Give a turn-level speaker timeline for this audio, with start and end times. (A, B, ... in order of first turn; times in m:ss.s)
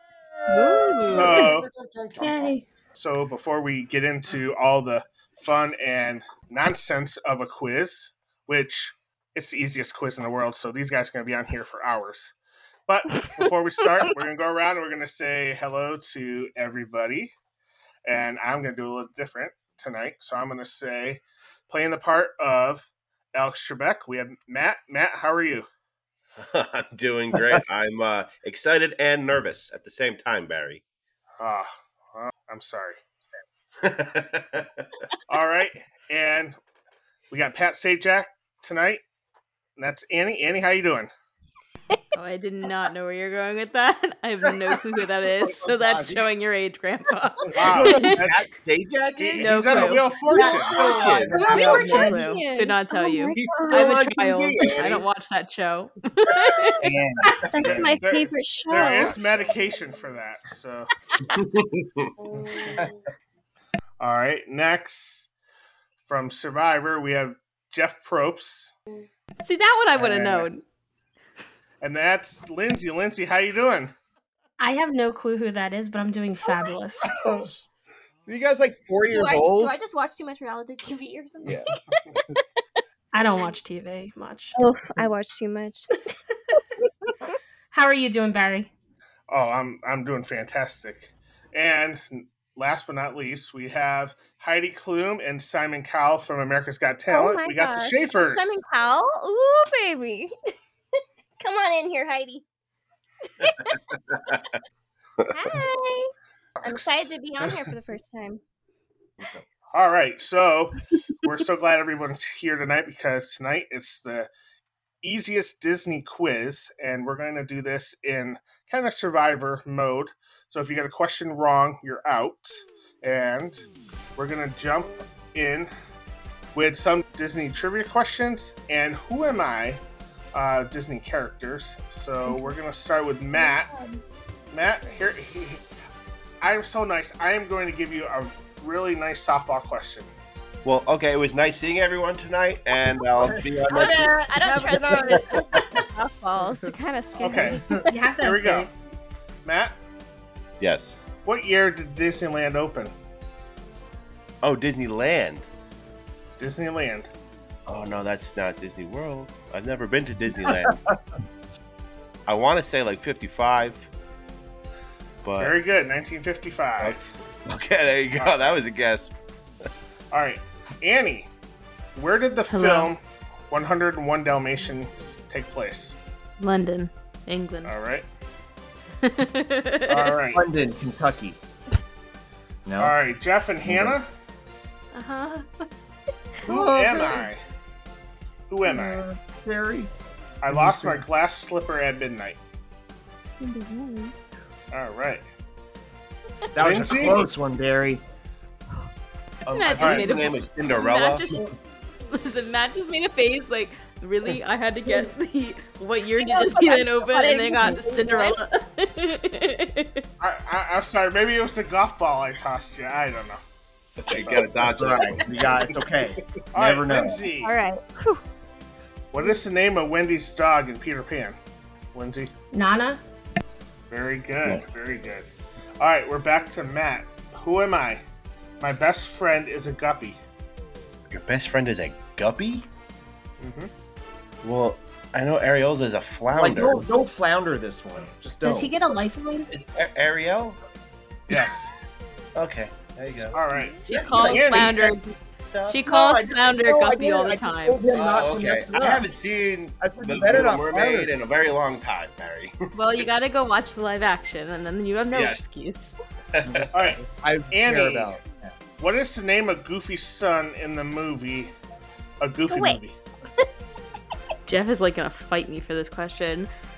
0:00.4-0:02.6 A
0:00.5-0:01.4 B
0:01.1-0:01.6 C
0:02.2-0:02.6 D
0:02.9-0:12.3 C
0:12.9-0:17.3 C
0:18.0-0:25.7 C
0:26.4-0:30.8 E
0:31.4-0:33.0 C
0:33.8-0:34.9 E
0:35.3-0:36.6 C
0:37.3-0:39.0 C
0:39.8-0:41.1 C
0:42.1-0:48.3 B
0:45.3-0:46.3 A
0:47.5-0:48.3 C
0:47.5-0:51.5 E
0:49.2-0:50.6 B
0:49.4-0:51.9 C
0:50.3-0:53.9 F
0:50.7-0:51.8 A
0:51.5-0:56.8 B
0:51.5-0:52.2 D
0:53.3-0:55.0 E
0:56.8-0:57.9 A
0:57.4-0:59.2 F
0:57.5-0:57.9 E
0:57.5-1:00.9 C
1:01.3-1:02.1 E
1:02.3-1:02.9 F
1:04.0-1:05.3 C
1:06.0-1:08.7 C
1:09.4-1:10.6 B
1:09.9-1:10.5 C
1:11.8-1:13.9 C
1:14.6-1:17.1 D
1:17.2-1:17.5 A
1:18.3-1:19.7 A
1:19.1-1:22.4 F
1:21.4-1:21.7 A
1:23.1-1:24.6 D
1:24.6-1:25.9 F
1:27.7-1:28.7 D
1:29.3-1:38.6 C
1:37.1-1:40.3 F
1:41.4-1:42.4 F
1:43.4-1:43.8 F
1:43.9-1:44.5 E
1:45.2-1:45.6 E
1:45.3-1:46.1 F
1:46.6-1:46.9 C
1:46.6-1:48.4 F
1:49.7-1:54.3 C
1:55.0-2:03.6 C
2:04.2-2:05.7 C
2:06.5-2:09.8 C
2:10.3-2:13.7 C
2:12.2-2:12.5 F
2:13.3-2:14.0 F
2:14.5-2:15.6 C
2:16.4-2:20.1 C
2:20.6-2:24.1 E
2:23.2-2:25.7 A
2:23.7-2:27.9 F
2:27.2-2:27.6 C
2:27.3-2:27.9 A
2:27.9-2:28.7 D
2:28.2-2:28.7 C
2:29.4-2:29.7 C
2:30.6-2:31.0 E
2:31.2-2:32.9 C
2:34.4-2:35.5 E
2:36.4-2:37.1 C
2:37.6-2:40.8 E
2:40.4-2:40.7 A
2:42.3-2:43.9 E
2:45.2-2:45.5 E
2:45.4-2:47.1 C
2:46.8-2:49.1 E
2:48.2-2:48.4 C
2:50.1-2:51.3 C
2:52.0-2:53.0 C
2:52.5-2:52.9 B
2:53.5-2:56.0 C
2:56.4-2:57.7 B
2:57.6-2:58.0 C
2:59.0-3:00.2 B
2:59.9-3:00.4 C
3:00.3-3:01.4 A
3:02.6-3:03.0 A
3:02.8-3:04.1 C
3:03.6-3:04.0 A
3:04.9-3:05.5 F
3:06.4-3:07.3 A
3:06.4-3:07.4 C
3:08.5-3:09.0 C
3:08.6-3:09.9 A
3:10.4-3:12.4 C
3:10.5-3:11.0 A
3:13.4-3:14.1 F
3:14.7-3:15.2 C
3:16.5-3:18.0 A
3:16.6-3:17.3 C
3:19.4-3:21.4 E
3:19.5-3:21.5 B
3:19.8-3:20.1 C
3:22.1-3:30.1 B
3:26.2-3:28.4 F
3:30.2-3:33.4 C
3:34.0-3:37.2 A
3:34.0-3:35.7 E
3:36.5-3:37.6 C
3:37.4-3:38.2 F
3:39.1-3:41.4 C
3:41.9-3:42.3 C
3:42.5-3:43.0 D
3:43.9-3:45.3 C
3:45.8-3:48.0 C
3:48.6-3:50.2 C
3:51.1-3:52.7 E
3:53.4-3:53.7 C
3:54.4-3:56.8 E
3:56.3-3:58.7 A
3:58.4-3:59.5 D
3:59.5-4:00.6 E
4:01.3-4:01.7 C
4:02.3-4:05.8 E
4:03.3-4:04.9 C
4:03.8-4:05.1 B
4:05.6-4:07.8 B
4:05.8-4:09.1 A
4:07.9-4:12.5 E
4:09.8-4:11.1 A
4:12.7-4:16.0 B
4:15.1-4:15.4 E
4:16.3-4:17.0 E
4:16.4-4:18.5 A
4:16.7-4:17.0 C
4:17.5-4:18.1 C
4:18.8-4:21.5 C
4:22.2-4:23.0 C
4:22.5-4:22.8 F
4:24.4-4:26.5 B